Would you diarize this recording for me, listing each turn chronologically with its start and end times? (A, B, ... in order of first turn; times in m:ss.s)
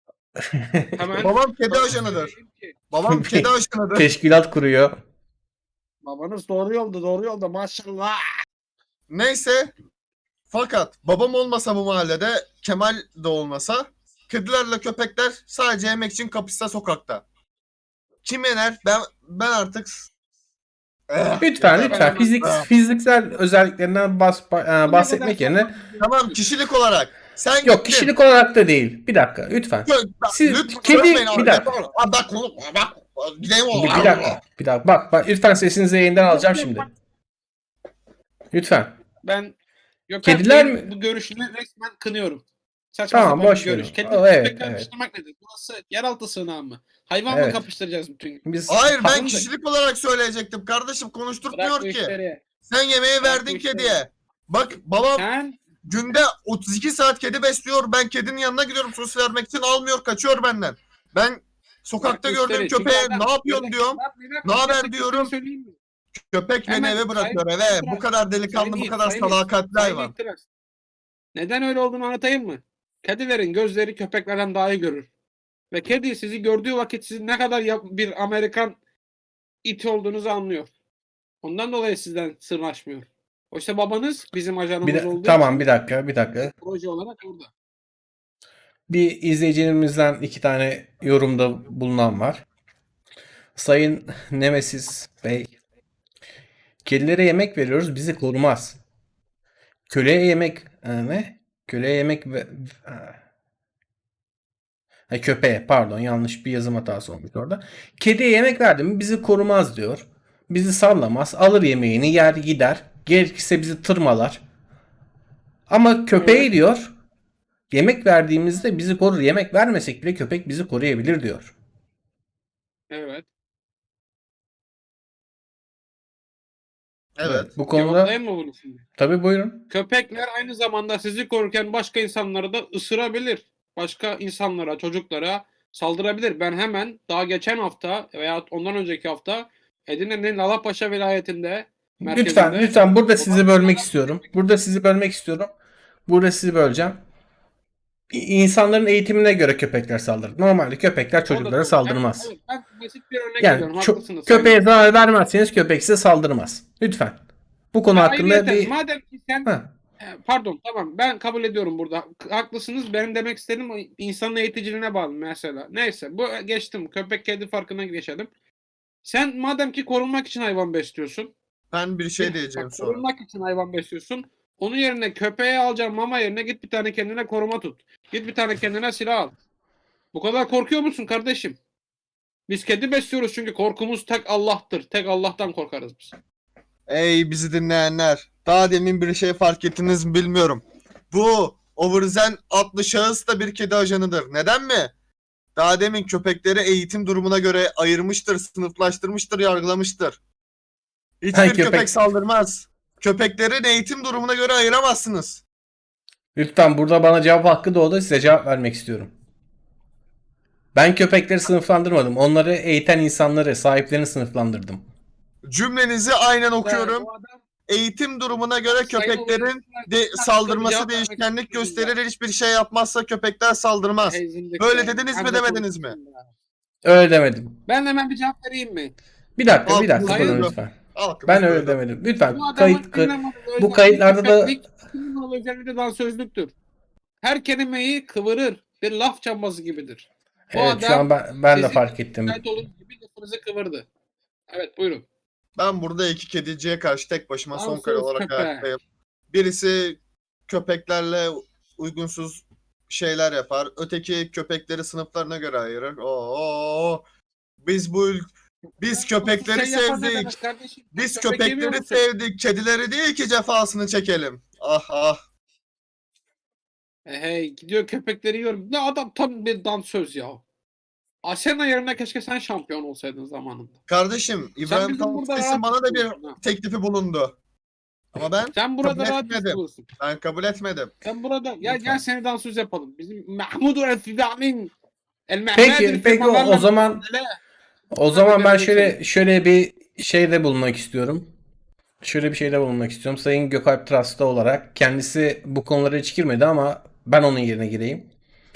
0:00.4-0:01.2 A
0:00.9-0:02.7 B
0:01.2-0:02.3 C
0:02.9-0:04.1 C
0:03.1-0:04.9 A
0:06.0-0:08.2 B
0:09.1-0:09.7 C
0:10.5-0:17.2 C
0:18.2-0:20.1 C
0:21.1-0:22.7 C
0:21.4-0:25.7 A
0:21.8-0:22.4 B
0:24.8-0:26.4 B
0:26.0-0:28.1 C
0:27.6-0:31.7 A
0:29.8-0:34.4 C
0:30.7-0:31.1 B
0:33.7-0:36.8 A
0:36.1-0:36.8 B
0:38.5-0:39.0 A
0:39.2-0:39.5 B
0:40.1-0:49.5 B
0:40.2-0:40.9 A
0:43.1-0:44.9 A
0:47.3-0:47.6 A
0:48.4-0:48.9 A
0:48.7-0:55.3 C
0:51.5-0:52.4 B
0:53.2-0:54.0 B
0:55.1-0:55.5 B
0:55.8-1:05.3 C
1:02.0-1:05.8 B
1:06.2-1:10.1 C
1:06.7-1:10.4 B
1:11.3-1:15.1 B
1:15.7-1:18.8 B
1:19.6-1:20.7 B
1:21.4-1:25.7 B
1:24.8-1:26.5 A
1:26.4-1:27.5 B
1:28.9-1:32.4 A
1:33.5-1:35.5 A
1:36.8-1:38.8 A
1:39.9-1:43.2 A
1:45.1-1:54.4 A
1:55.7-1:56.9 A
1:56.1-1:56.5 B
1:57.7-2:01.5 A
2:02.9-2:03.3 B
2:07.2-2:07.6 C
2:07.2-2:08.1 A
2:07.7-2:08.8 B
2:09.0-2:09.6 A
2:09.7-2:24.3 B
2:22.0-2:25.5 A
2:26.0-2:27.0 A
2:28.1-2:32.3 A
2:31.2-2:34.6 B
2:33.4-2:37.2 A
2:37.7-2:38.7 A
2:37.9-2:48.3 B
2:39.4-2:39.7 A
2:49.0-2:51.3 B
2:51.7-2:53.0 C
2:52.2-2:59.3 B
3:00.1-3:01.6 B
3:02.5-3:06.1 B
3:06.9-3:14.9 C
3:15.6-3:20.2 C
3:21.2-3:25.4 C
3:21.3-3:21.9 A
3:26.4-3:29.1 A
3:30.7-3:34.8 A
3:35.5-3:37.1 C
3:36.6-3:37.4 B
3:37.7-3:46.0 C
3:38.6-3:42.0 B
3:44.0-3:46.3 B
3:46.8-3:47.6 A
3:47.6-3:48.9 B
3:49.4-3:50.8 A
3:49.6-3:51.8 C
3:50.0-3:50.5 B
3:51.3-3:54.6 A
3:52.3-3:56.5 B
3:57.2-4:03.8 B
4:00.5-4:02.4 A
4:04.5-4:05.0 B
4:05.6-4:08.8 C
4:07.5-4:08.7 B
4:09.3-4:17.0 C
4:17.6-4:18.3 C
4:18.8-4:20.3 C
4:18.8-4:22.0 B
4:20.9-4:25.2 C
4:27.0-4:30.4 B
4:31.2-4:33.8 B
4:33.9-4:37.4 C
4:34.6-4:36.4 B
4:38.1-4:40.9 C
4:38.5-4:39.9 B
4:41.0-4:44.7 B
4:41.6-4:42.0 A
4:45.3-4:47.4 B
4:45.5-4:47.0 A
4:47.9-4:51.3 A
4:48.1-4:49.0 B
4:52.0-4:58.1 A